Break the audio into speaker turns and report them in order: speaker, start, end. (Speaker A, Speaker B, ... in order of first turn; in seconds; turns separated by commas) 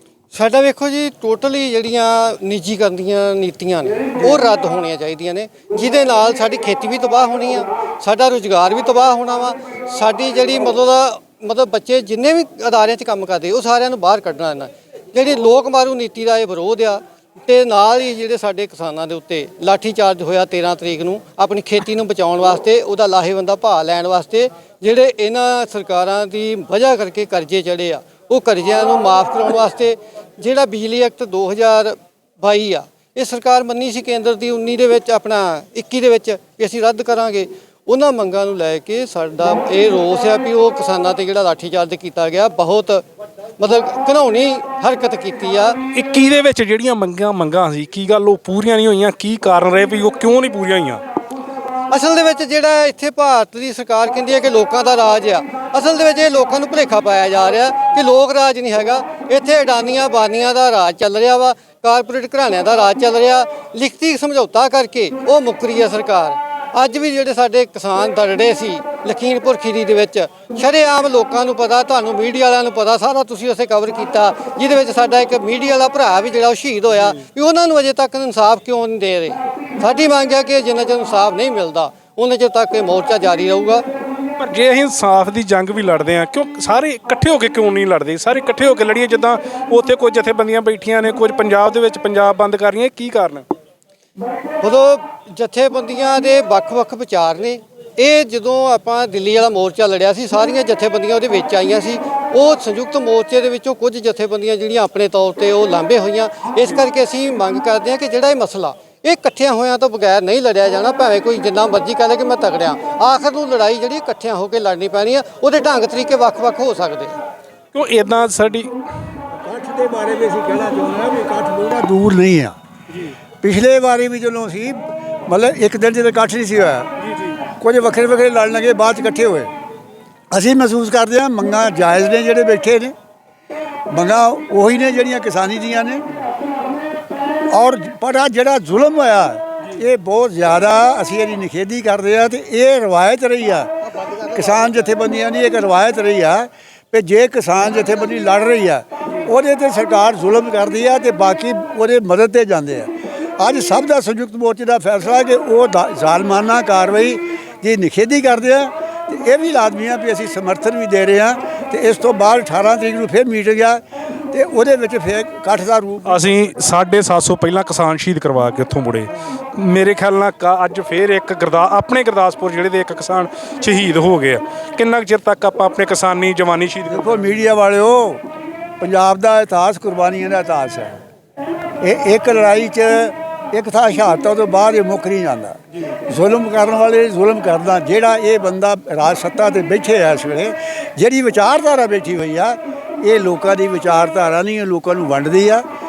Speaker A: 0.3-43.0, Speaker A: 43.6-45.8, Speaker B: 45.9-51.0, Speaker A: 51.9-83.8, Speaker B: 84.4-93.5, Speaker A: 94.6-117.1, Speaker B: 117.7-118.7, Speaker C: 119.4-122.5, Speaker C: 123.4-126.9, Speaker C: 127.6-129.5, Speaker C: 130.3-132.9, Speaker C: 133.9-136.0, Speaker C: 137.5-143.7, Speaker C: 144.2-166.2, Speaker B: 166.1-177.3, Speaker C: 176.9-178.2, Speaker C: 178.8-181.0, Speaker C: 181.8-195.6